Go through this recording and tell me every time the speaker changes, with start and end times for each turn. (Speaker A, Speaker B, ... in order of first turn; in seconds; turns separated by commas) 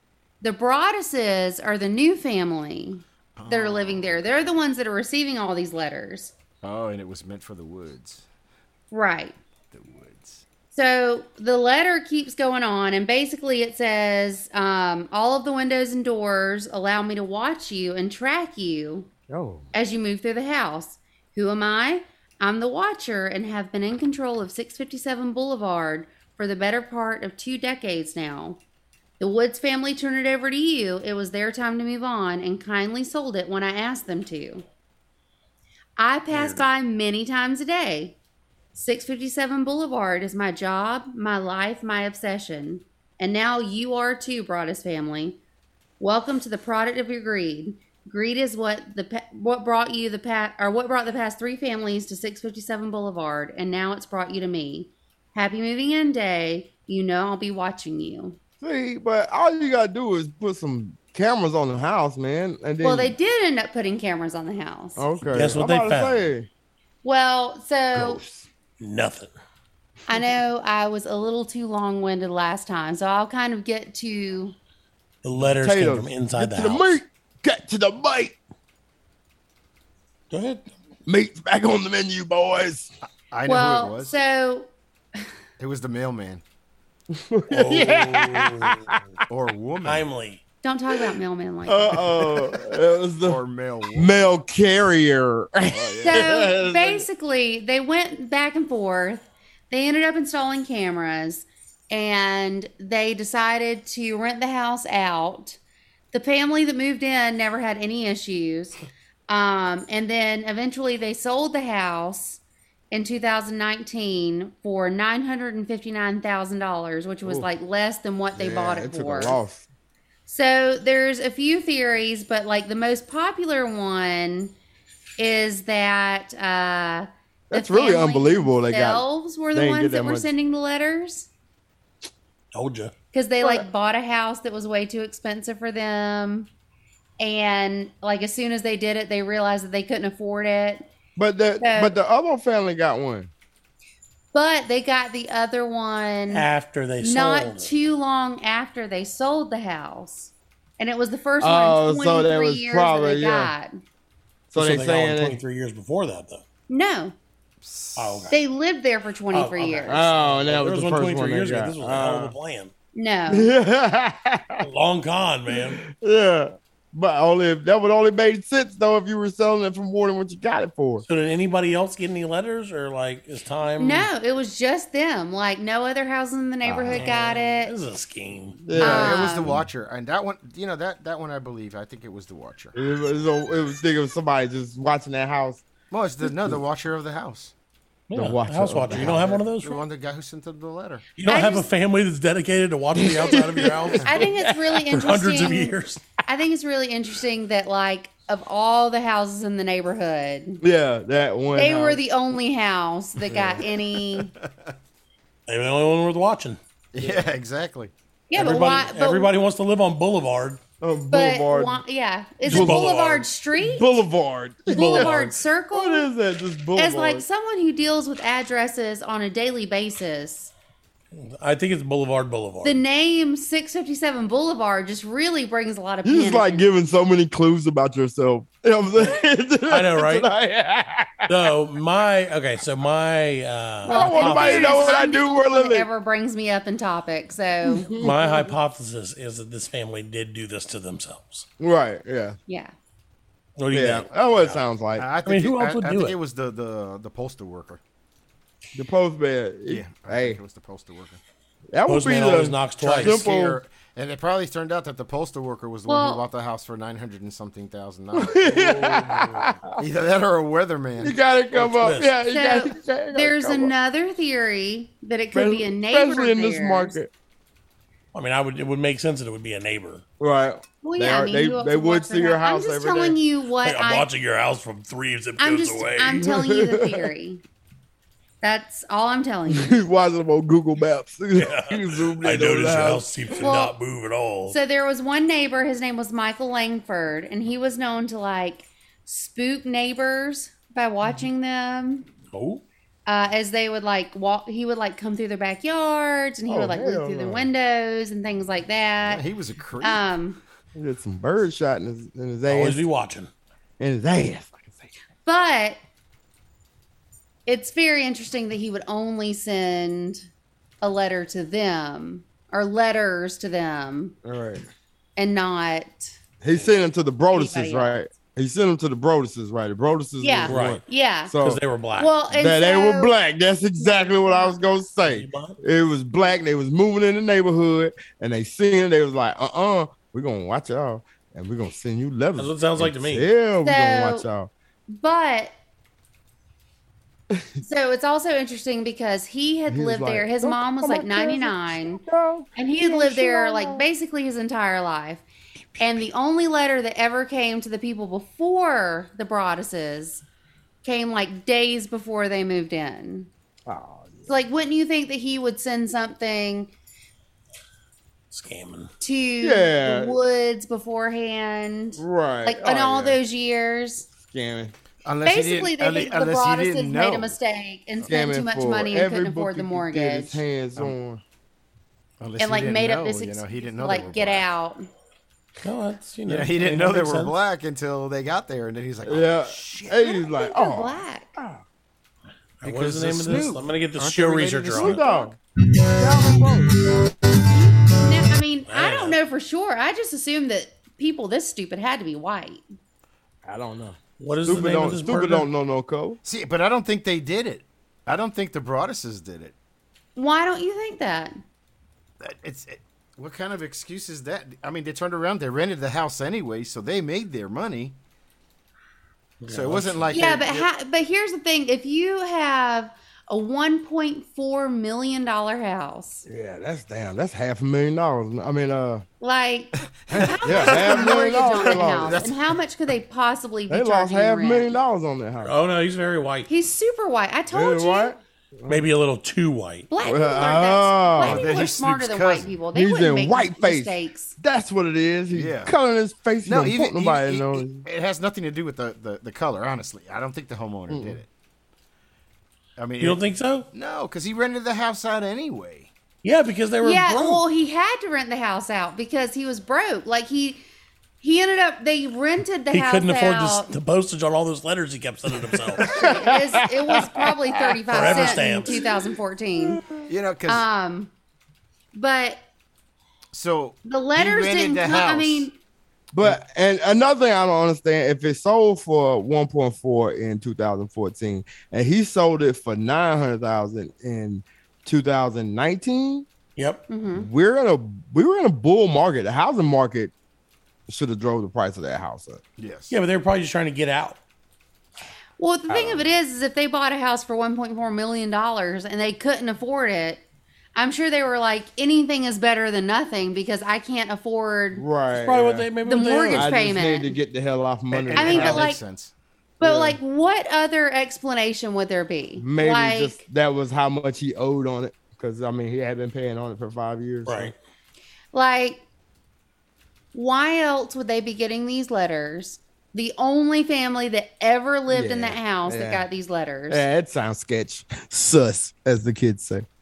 Speaker A: 0.4-6.3, Speaker B: 3.4-4.5, Speaker B: 6.6-8.2, Speaker A: 8.9-9.3, Speaker B: 9.7-10.4, Speaker A: 10.7-19.1, Speaker C: 19.3-19.7, Speaker A: 19.7-28.6, Speaker A: 29.2-34.6, Speaker A: 36.0-38.2, Speaker D: 36.3-36.6, Speaker A: 38.8-45.4, Speaker A: 46.0-58.4, Speaker C: 58.6-63.2, Speaker A: 62.8-65.0, Speaker C: 65.0-66.5, Speaker D: 65.3-66.3, Speaker A: 67.0-68.2, Speaker C: 67.9-68.5, Speaker D: 68.8-69.3, Speaker A: 70.1-74.5, Speaker D: 75.2-77.0, Speaker C: 75.4-78.4, Speaker D: 80.3-80.7, Speaker C: 81.1-82.9, Speaker B: 83.3-84.1, Speaker A: 83.5-84.7, Speaker B: 85.6-86.4, Speaker C: 87.1-89.0, Speaker D: 87.5-89.0, Speaker B: 89.3-90.1, Speaker D: 89.8-90.4, Speaker A: 90.6-92.2, Speaker C: 91.7-93.4, Speaker B: 93.2-94.3, Speaker C: 94.0-97.1, Speaker A: 96.0-105.6, Speaker A: 106.1-112.4, Speaker A: 112.9-119.4, Speaker C: 118.4-119.7, Speaker A: 120.3-124.5, Speaker A: 125.2-131.3, Speaker C: 127.5-130.3, Speaker D: 132.5-132.9, Speaker A: 133.1-136.5, Speaker C: 133.4-133.7, Speaker A: 137.2-140.9, Speaker C: 141.2-143.3, Speaker A: 141.6-142.0, Speaker A: 144.3-146.5, Speaker D: 146.3-147.7, Speaker A: 147.0-153.8, Speaker C: 151.4-153.5, Speaker C: 154.5-155.4, Speaker D: 154.6-156.4, Speaker A: 156.7-157.2, Speaker B: 157.6-158.3, Speaker D: 158.0-158.4, Speaker A: 158.3-160.1, Speaker D: 159.3-162.7, Speaker C: 159.9-162.3, Speaker A: 162.9-163.5, Speaker C: 163.3-164.7, Speaker D: 164.6-165.8, Speaker C: 165.5-171.1, Speaker D: 171.1-174.1, Speaker A: 173.8-177.7, Speaker C: 176.6-177.0, Speaker D: 176.9-178.6, Speaker C: 178.6-179.6, Speaker B: 178.7-182.8, Speaker A: 178.8-179.5, Speaker C: 182.8-185.6, Speaker B: 185.9-187.5, Speaker C: 186.2-186.6, Speaker D: 188.1-189.8, Speaker C: 188.1-189.4, Speaker B: 188.9-191.1, Speaker D: 191.2-194.3, Speaker A: 191.2-191.7, Speaker C: 193.0-194.9, Speaker A: 194.0-200.6, Speaker D: 194.9-196.0, Speaker C: 200.6-202.0, Speaker A: 201.5-204.3, Speaker B: 203.3-203.7, Speaker B: 204.4-204.8, Speaker D: 205.5-206.6, Speaker B: 206.9-207.9, Speaker A: 208.3-209.3, Speaker D: 208.3-210.6, Speaker C: 210.8-211.8, Speaker A: 211.1-213.9, Speaker D: 212.4-213.3, Speaker C: 212.5-213.0, Speaker C: 213.6-215.2, Speaker A: 214.7-216.1, Speaker D: 214.7-215.4, Speaker C: 215.7-217.2, Speaker A: 216.8-220.5, Speaker D: 221.1-222.8, Speaker A: 222.6-226.7, Speaker C: 226.1-231.4, Speaker D: 229.7-230.3, Speaker D: 231.3-235.0, Speaker A: 233.8-237.9, Speaker C: 233.9-235.9, Speaker C: 237.6-238.5, Speaker D: 238.0-241.5, Speaker C: 241.6-242.4, Speaker A: 242.5-242.7, Speaker D: 243.6-244.6, Speaker C: 243.7-245.1, Speaker B: 245.0-247.8, Speaker D: 245.2-246.2, Speaker C: 248.7-250.4, Speaker B: 249.7-251.2, Speaker C: 251.7-253.6, Speaker D: 251.9-253.2, Speaker B: 252.8-259.2, Speaker A: 255.9-256.2, Speaker C: 258.1-259.8, Speaker D: 258.9-259.4, Speaker B: 259.8-261.2, Speaker C: 261.0-263.7, Speaker D: 261.6-262.1, Speaker A: 262.2-267.0, Speaker C: 265.3-267.1, Speaker D: 268.1-270.0, Speaker C: 270.2-273.2, Speaker A: 270.8-274.1, Speaker D: 273.6-276.2, Speaker A: 275.4-277.4, Speaker C: 276.2-277.1, Speaker A: 278.4-279.8, Speaker C: 279.5-283.3, Speaker D: 281.4-284.6, Speaker A: 283.4-283.8, Speaker A: 284.5-292.1, Speaker D: 292.3-292.6, Speaker A: 293.1-299.2, Speaker C: 296.5-297.5, Speaker B: 299.0-300.1, Speaker A: 299.8-300.4, Speaker C: 300.8-302.8, Speaker D: 302.5-303.3, Speaker C: 303.8-304.9, Speaker A: 305.3-305.8, Speaker A: 307.5-310.3, Speaker A: 310.8-314.1, Speaker C: 314.2-314.7, Speaker A: 315.2-316.2, Speaker C: 316.4-321.6, Speaker A: 317.3-318.0, Speaker A: 320.2-321.3, Speaker D: 320.5-320.8, Speaker D: 321.4-322.1, Speaker A: 322.0-323.2, Speaker C: 322.3-334.5, Speaker A: 323.8-324.6, Speaker D: 325.1-325.6, Speaker D: 332.4-333.3, Speaker A: 333.6-334.3, Speaker A: 334.9-335.5, Speaker C: 337.3-337.6, Speaker A: 337.6-342.0, Speaker C: 339.7-343.9, Speaker A: 342.6-345.2, Speaker A: 345.8-350.2, Speaker A: 350.8-353.3, Speaker C: 353.7-354.3, Speaker A: 354.3-356.7, Speaker D: 358.3-358.9, Speaker A: 359.0-364.1, Speaker C: 359.4-360.2, Speaker C: 362.0-363.2, Speaker C: 364.2-364.7, Speaker B: 365.1-367.4, Speaker A: 365.2-370.4, Speaker C: 368.1-371.2, Speaker B: 372.2-374.5, Speaker A: 372.4-374.9, Speaker D: 375.6-377.4, Speaker B: 376.3-380.0, Speaker C: 379.0-381.6, Speaker A: 379.9-381.4, Speaker D: 382.6-385.0, Speaker B: 382.6-385.0, Speaker C: 384.7-385.4, Speaker A: 385.0-385.3, Speaker C: 386.0-386.7, Speaker A: 387.5-392.6, Speaker D: 388.7-389.2, Speaker C: 393.4-396.2, Speaker D: 394.2-395.5, Speaker B: 396.2-399.6, Speaker A: 400.2-401.4, Speaker B: 402.2-408.0, Speaker D: 409.4-410.1, Speaker B: 409.5-410.7, Speaker A: 410.1-416.2, Speaker C: 416.3-419.0, Speaker A: 419.2-424.8, Speaker B: 420.1-422.6, Speaker C: 420.4-422.2, Speaker C: 423.7-425.6, Speaker D: 425.4-426.5, Speaker A: 426.5-428.1, Speaker C: 427.5-428.9, Speaker D: 428.7-429.9, Speaker A: 429.9-434.4, Speaker C: 430.0-431.5, Speaker B: 431.2-432.5, Speaker C: 432.7-437.9, Speaker B: 435.3-435.7, Speaker B: 436.4-441.3, Speaker C: 440.9-441.2, Speaker B: 442.8-445.9, Speaker D: 443.0-443.7, Speaker D: 446.2-447.4, Speaker A: 446.8-450.6, Speaker A: 451.2-453.8, Speaker D: 452.7-455.9, Speaker C: 455.8-460.1, Speaker A: 455.9-459.9, Speaker D: 457.9-458.8, Speaker B: 460.1-460.6, Speaker A: 460.5-461.1, Speaker A: 461.9-462.4, Speaker B: 463.3-465.5, Speaker A: 463.9-465.6, Speaker C: 466.1-476.3, Speaker D: 476.6-476.8, Speaker A: 476.9-477.3, Speaker C: 477.1-480.1, Speaker C: 480.9-482.4, Speaker B: 482.6-483.0, Speaker D: 482.9-484.2, Speaker A: 485.4-490.2, Speaker C: 485.7-486.1, Speaker A: 490.8-494.9, Speaker C: 494.7-495.7, Speaker D: 495.1-496.5, Speaker A: 495.9-497.2, Speaker C: 496.3-498.7, Speaker B: 497.9-499.1, Speaker A: 498.1-498.8, Speaker A: 499.6-503.2, Speaker C: 499.6-500.0, Speaker C: 502.4-507.5, Speaker D: 507.3-507.6, Speaker A: 508.3-508.8, Speaker A: 510.1-516.9, Speaker C: 514.9-516.0, Speaker C: 516.7-519.7